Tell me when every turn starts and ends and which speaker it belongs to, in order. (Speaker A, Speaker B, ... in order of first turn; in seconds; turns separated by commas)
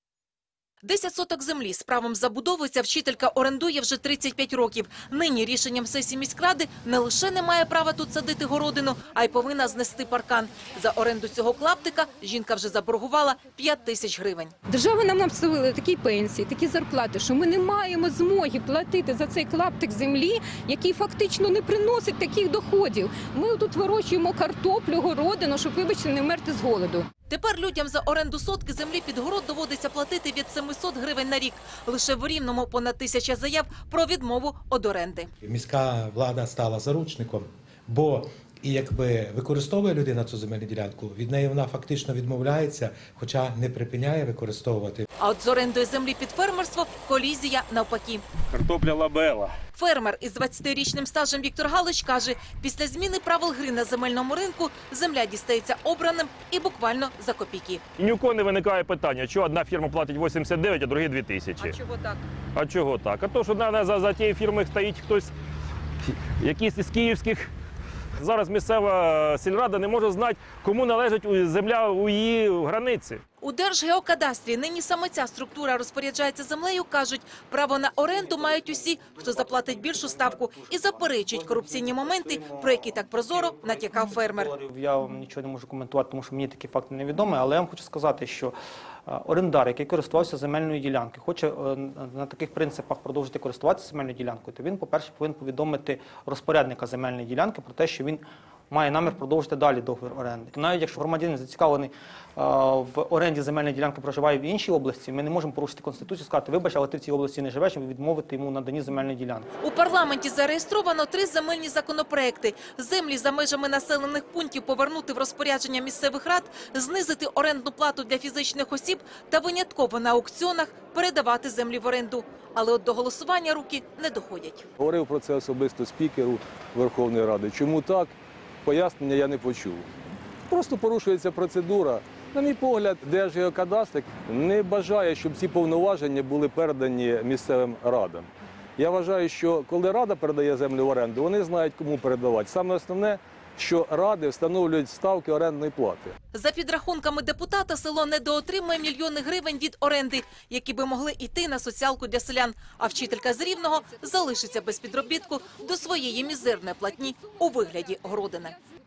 Speaker A: 0.8-14.5, Speaker B: 14.7-27.1, Speaker A: 27.3-35.3, Speaker C: 35.4-45.1, Speaker A: 45.2-48.2, Speaker D: 48.5-49.5, Speaker A: 49.7-57.8, Speaker D: 58.0-61.8, Speaker A: 61.6-62.2, Speaker D: 62.5-65.3, Speaker D: 66.4-67.5, Speaker D: 68.2-73.2, Speaker A: 73.4-84.5, Speaker E: 78.2-88.5, Speaker E: 89.1-109.5, Speaker A: 109.6-124.7, Speaker F: 124.8-129.9, Speaker F: 130.5-146.2, Speaker A: 146.3-158.6